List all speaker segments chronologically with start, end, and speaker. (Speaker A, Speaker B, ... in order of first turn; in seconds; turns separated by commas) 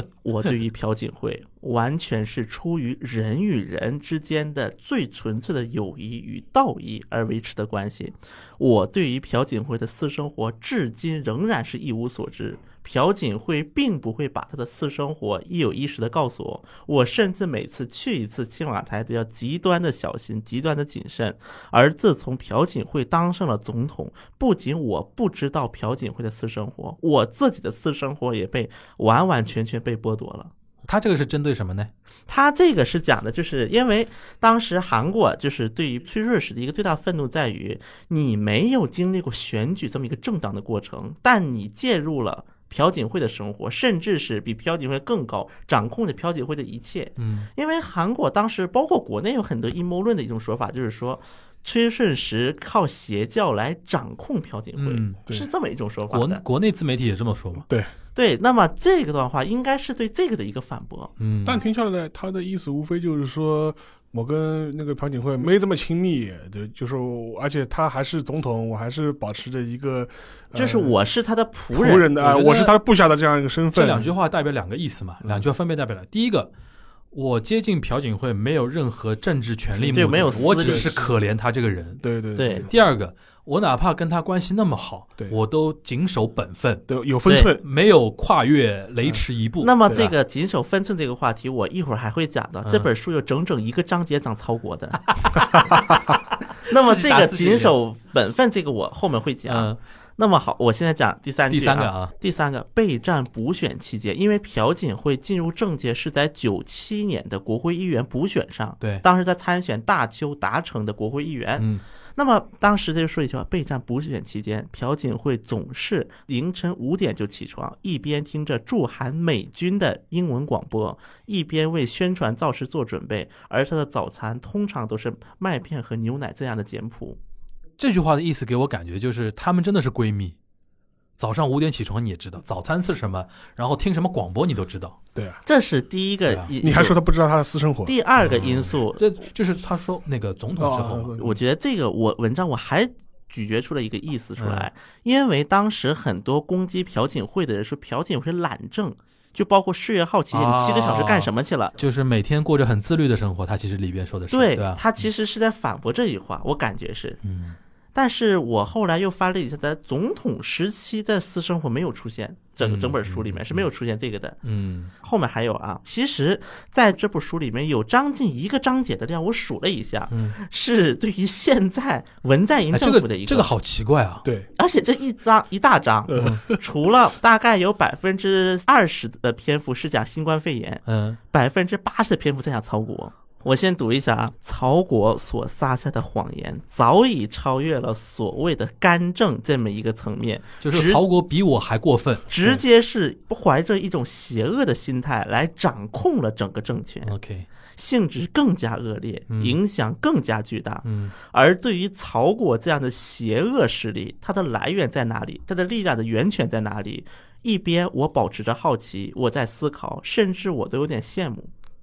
Speaker A: 0.2-30.5, Speaker B: 30.9-31.9, Speaker A: 32.3-56.4, Speaker B: 47.2-47.5, Speaker B: 54.8-55.2, Speaker B: 56.1-57.6, Speaker A: 58.1-61.1, Speaker B: 61.2-61.6, Speaker C: 61.5-71.0, Speaker A: 70.5-72.1, Speaker C: 71.7-74.1, Speaker B: 72.2-72.8, Speaker B: 73.7-76.5, Speaker C: 75.2-75.5, Speaker B: 77.1-82.0, Speaker C: 79.8-81.1, Speaker A: 79.9-81.0, Speaker C: 82.0-82.7, Speaker A: 82.4-82.7, Speaker B: 82.7-86.9, Speaker C: 86.9-87.6, Speaker B: 87.5-90.1, Speaker A: 89.6-95.0, Speaker C: 89.9-90.1, Speaker B: 95.1-96.2, Speaker A: 96.7-111.7, Speaker B: 96.7-97.7, Speaker B: 99.5-99.8, Speaker B: 101.5-102.1, Speaker A: 112.2-127.2, Speaker B: 127.8-130.3, Speaker B: 131.2-135.0, Speaker C: 135.2-135.4, Speaker A: 135.5-137.0, Speaker C: 136.6-137.9, Speaker A: 137.9-139.0, Speaker B: 138.3-141.2, Speaker C: 140.6-141.4, Speaker A: 141.2-151.7, Speaker B: 144.4-144.7, Speaker B: 150.3-154.8, Speaker A: 154.3-157.2, Speaker B: 157.2-157.6, Speaker A: 157.9-164.4, Speaker B: 162.6-163.7, Speaker B: 164.4-164.9, Speaker A: 165.0-173.5, Speaker B: 170.1-170.4, Speaker B: 172.7-174.2, Speaker A: 174.6-191.1, Speaker C: 176.1-176.6, Speaker B: 176.2-176.4, Speaker B: 180.9-181.2, Speaker B: 190.6-192.6, Speaker A: 192.3-197.1, Speaker B: 197.0-197.5, Speaker A: 197.8-211.5, Speaker B: 199.3-199.6, Speaker B: 200.8-201.1